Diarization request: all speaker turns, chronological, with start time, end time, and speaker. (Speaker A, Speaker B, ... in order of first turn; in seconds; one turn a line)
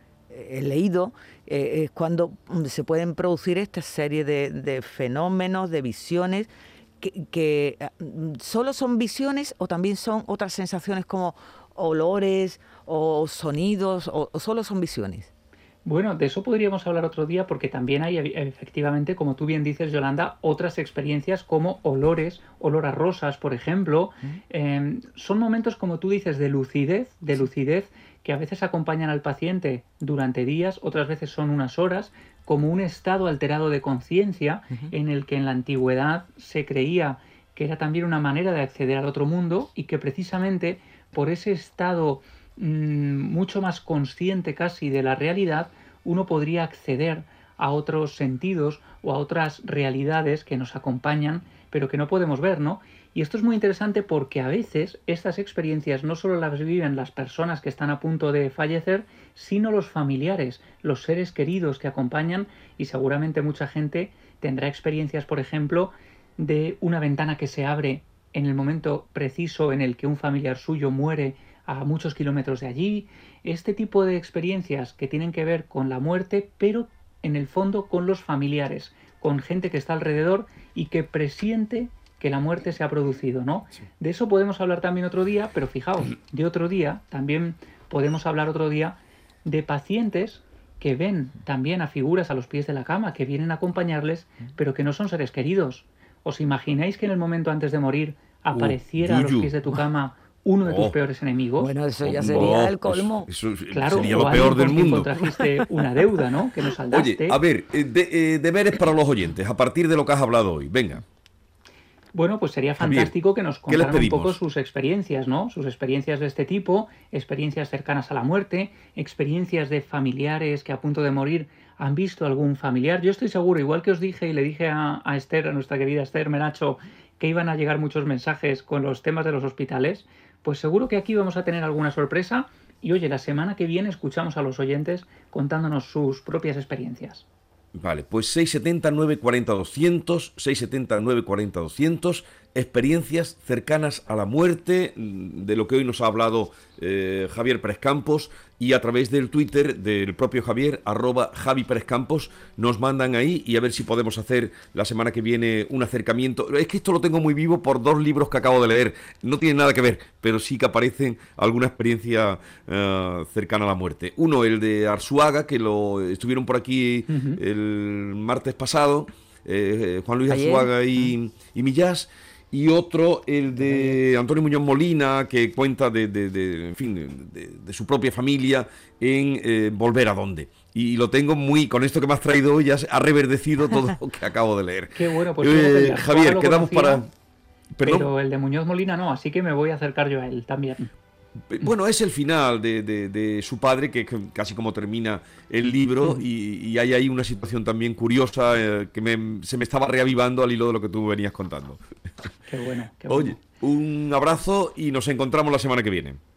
Speaker A: 0.3-6.5
Speaker A: 7.0-15.3
Speaker B: 15.8-101.7
Speaker C: 98.5-99.5
Speaker C: 100.6-101.0
Speaker A: 101.6-103.3
Speaker C: 102.0-105.1
Speaker B: 103.7-107.4
Speaker C: 106.9-111.0
Speaker B: 112.1-137.2
Speaker C: 112.8-113.1
Speaker C: 113.7-114.4
Speaker C: 137.8-187.1
Speaker B: 167.1-167.4
Speaker A: 170.3-171.1
Speaker A: 173.7-174.0
Speaker B: 184.9-187.1
Speaker C: 187.7-188.1
Speaker B: 187.8-190.9
Speaker C: 191.5-201.8
Speaker B: 202.5-203.4
Speaker C: 203.1-206.2